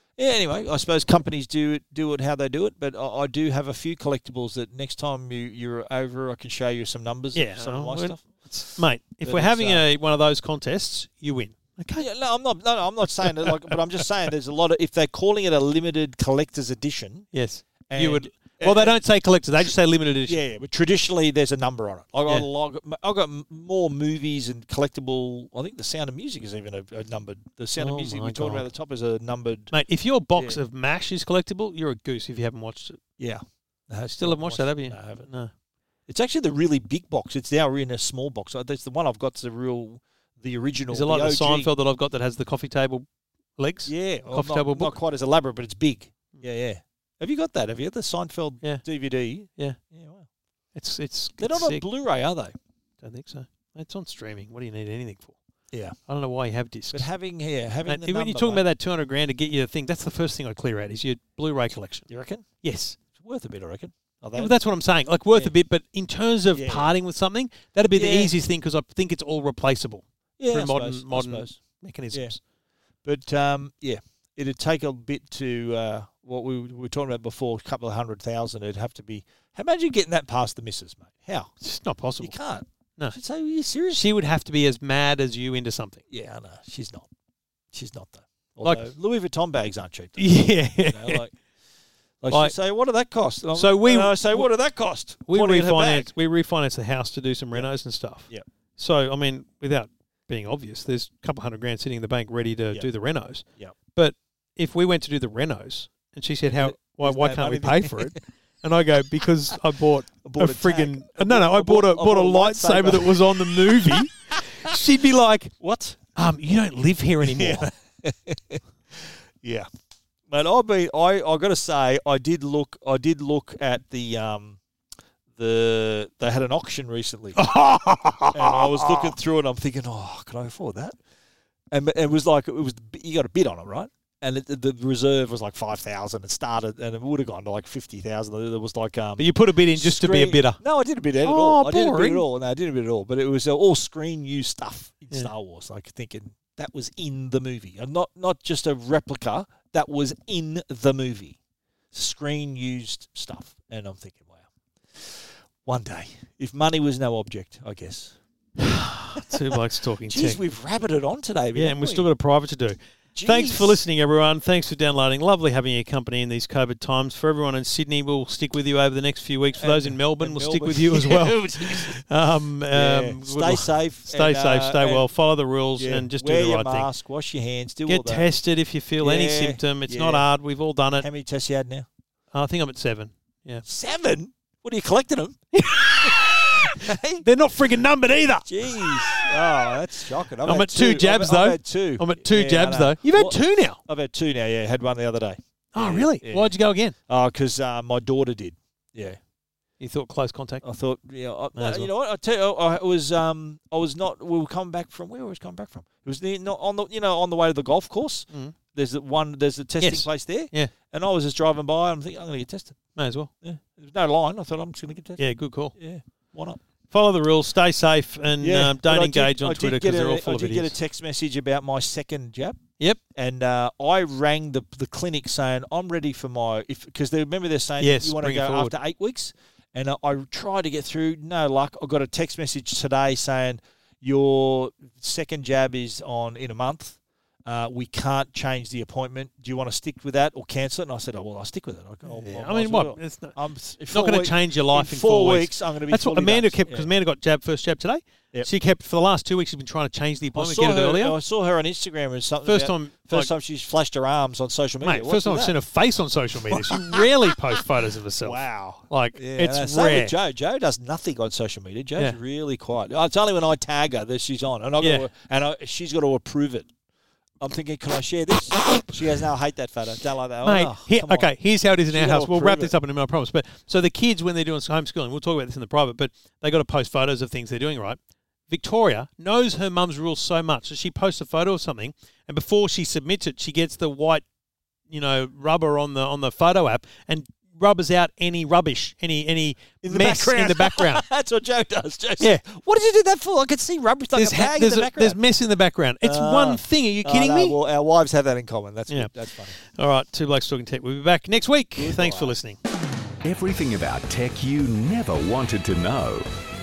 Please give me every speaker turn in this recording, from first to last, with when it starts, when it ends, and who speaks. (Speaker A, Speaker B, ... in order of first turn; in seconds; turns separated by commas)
Speaker A: 0.2-9.8, Speaker B: 7.3-12.1, Speaker A: 12.0-17.3, Speaker B: 13.2-13.8, Speaker B: 17.3-20.4, Speaker A: 17.9-19.0, Speaker A: 20.3-29.7, Speaker B: 27.8-28.7, Speaker B: 29.7-33.0, Speaker A: 33.2-35.3, Speaker B: 34.2-35.5, Speaker A: 36.1-41.7, Speaker B: 40.9-43.0, Speaker B: 43.6-45.0, Speaker A: 43.9-50.3, Speaker B: 50.8-51.8, Speaker A: 51.4-52.5, Speaker B: 53.0-55.4, Speaker A: 55.7-56.0, Speaker B: 56.1-57.1, Speaker A: 56.9-58.6, Speaker B: 57.9-62.1, Speaker A: 62.1-62.5, Speaker B: 62.6-63.0, Speaker A: 63.1-64.5, Speaker B: 64.3-72.4, Speaker A: 66.5-66.9, Speaker A: 67.9-68.3, Speaker A: 70.4-71.6, Speaker A: 72.1-72.4, Speaker A: 73.0-81.5, Speaker B: 81.6-82.3, Speaker A: 82.2-84.0, Speaker B: 83.9-86.0, Speaker A: 86.1-87.1, Speaker A: 87.7-91.4, Speaker B: 88.6-88.9, Speaker B: 90.2-91.2, Speaker A: 92.2-96.1, Speaker B: 92.3-92.5, Speaker B: 93.5-94.5, Speaker B: 95.3-115.5, Speaker A: 106.5-108.2, Speaker A: 110.2-114.1, Speaker A: 115.6-116.0, Speaker B: 116.1-117.7, Speaker A: 117.2-119.7, Speaker A: 120.3-124.6, Speaker A: 125.3-127.4, Speaker B: 127.3-129.1, Speaker A: 128.3-131.0, Speaker A: 131.7-151.4, Speaker B: 139.2-140.6, Speaker B: 141.2-142.2, Speaker A: 151.9-154.4, Speaker A: 154.9-158.2, Speaker B: 158.6-160.4, Speaker A: 159.2-159.6, Speaker A: 160.1-162.1, Speaker B: 161.5-176.9, Speaker A: 163.1-163.8, Speaker A: 169.6-172.0, Speaker A: 172.7-175.1, Speaker A: 175.8-178.2, Speaker B: 177.9-181.1, Speaker A: 179.0-180.3, Speaker A: 181.0-181.9, Speaker B: 182.3-183.6, Speaker A: 183.6-185.5, Speaker B: 185.5-189.3, Speaker A: 186.0-187.2, Speaker A: 188.4-196.5, Speaker B: 190.4-193.8, Speaker B: 195.7-196.9, Speaker A: 197.1-199.2, Speaker B: 199.8-200.6, Speaker A: 200.6-212.8, Speaker B: 201.5-201.9, Speaker B: 209.8-210.7, Speaker B: 212.9-213.3, Speaker A: 213.4-215.2, Speaker B: 215.2-215.7, Speaker A: 215.7-216.6, Speaker B: 216.9-220.7, Speaker A: 218.4-222.6, Speaker A: 223.1-246.9, Speaker B: 227.8-228.8, Speaker B: 242.1-243.3, Speaker B: 243.9-251.2, Speaker A: 250.3-255.5, Speaker B: 252.4-253.3, Speaker B: 254.8-260.1, Speaker A: 256.5-257.6, Speaker A: 258.2-266.7, Speaker B: 264.8-265.1, Speaker A: 267.4-271.3, Speaker B: 270.4-278.0, Speaker A: 271.9-272.7, Speaker B: 278.5-284.2, Speaker B: 284.9-291.0, Speaker A: 289.8-295.2, Speaker B: 294.1-297.6, Speaker A: 296.0-299.6, Speaker B: 298.9-302.6, Speaker A: 301.8-302.3, Speaker C: 303.2-306.3